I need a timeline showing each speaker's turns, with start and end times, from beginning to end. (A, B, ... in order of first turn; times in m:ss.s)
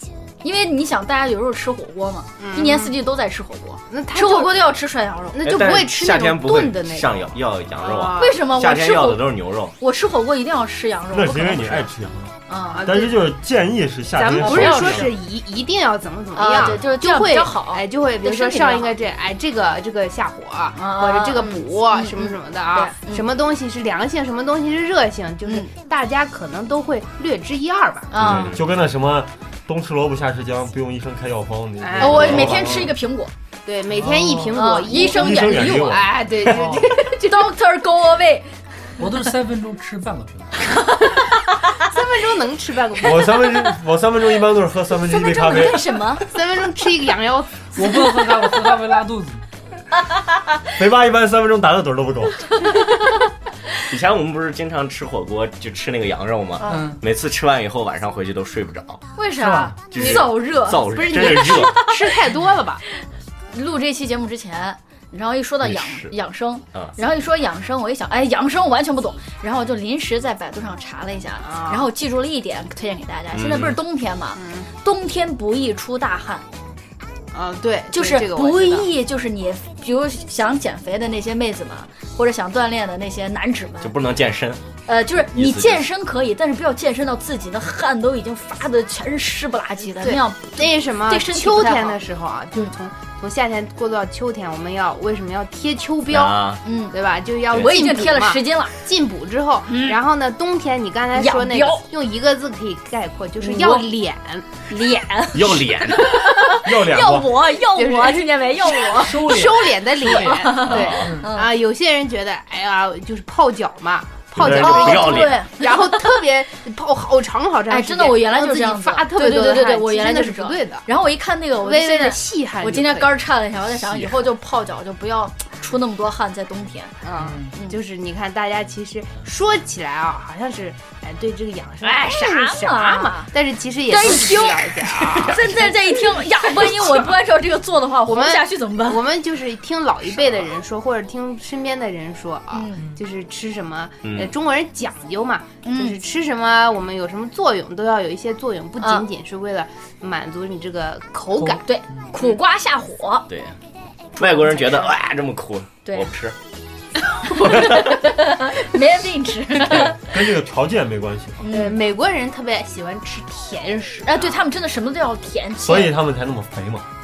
0:00.4-0:05.4 A
0:02.4-0:03.0 B
0:03.9-0:04.6 B
0:05.3-0:08.4 B
0:05.4-0:09.7 C
0:08.2-0:09.2 A
0:09.8-0:11.9 A
0:11.1-0:15.1 D
0:12.5-0:12.9 A
0:12.7-0:13.2 B
0:14.1-0:28.4 B
0:14.4-0:15.1 A
0:16.3-0:18.9 A
0:20.8-0:23.2 A
0:25.4-0:25.7 A
0:28.1-0:28.5 A
0:28.2-0:28.6 C
0:28.3-0:32.9 D
0:31.8-0:32.8 B
0:32.0-0:33.3 A
0:32.1-0:32.7 C
0:33.6-0:37.1 B
0:33.9-0:34.6 E
0:34.5-0:36.0 A
0:34.9-0:36.3 D
0:36.4-0:36.8 E
0:36.7-0:38.5 A
0:39.0-0:40.7 E
0:40.9-0:41.2 A
0:41.8-0:43.5 B
0:43.0-0:46.0 D
0:45.1-0:46.2 A
0:46.2-0:48.4 B
0:47.7-0:49.4 E
0:50.8-0:52.5 D
0:53.9-0:59.0 C
0:56.6-0:56.9 A
0:56.6-0:57.0 E
0:59.2-1:02.0 A
0:59.4-0:59.8 E
0:59.9-1:01.8 C
0:59.9-1:02.8 B
1:03.5-1:16.4 A
1:05.6-1:06.1 C
1:11.4-1:11.9 B
1:13.3-1:13.8 C
1:14.4-1:14.7 B
1:17.3-1:18.9 B
1:17.9-1:23.9 A
1:23.8-1:24.6 C
1:24.9-1:32.0 A
1:25.3-1:25.9 C
1:30.0-1:44.5 B
1:36.1-1:36.6 C
1:36.6-1:36.9 A
1:37.5-1:38.8 A
1:39.7-1:40.0 A
1:41.2-1:41.8 A
1:43.4-1:43.9 A
1:44.7-1:49.3 A
1:45.3-1:46.2 C
1:46.6-1:47.3 D
1:47.7-2:00.8 B
1:49.0-1:51.3 E
1:50.2-1:51.5 A
1:50.7-1:51.1 C
1:54.4-1:55.4 C
1:54.5-1:55.9 A
1:57.7-2:06.9 A
2:01.6-2:03.2 B
2:07.0-2:17.1 B
2:07.2-2:07.5 E
2:11.8-2:13.3 A
2:13.9-2:19.0 A
2:18.0-2:31.6 B
2:22.5-2:22.8 A
2:24.0-2:24.3 C
2:25.6-2:26.0 A
2:28.8-2:29.0 A
2:31.4-2:33.2 A
2:33.3-2:33.6 C
2:34.2-2:36.4 C
2:37.2-2:40.0 A
2:37.4-2:38.0 C
2:39.8-2:41.5 D
2:41.4-2:41.8 A
2:41.5-2:44.4 B
2:44.0-2:45.9 A
2:45.6-2:46.8 D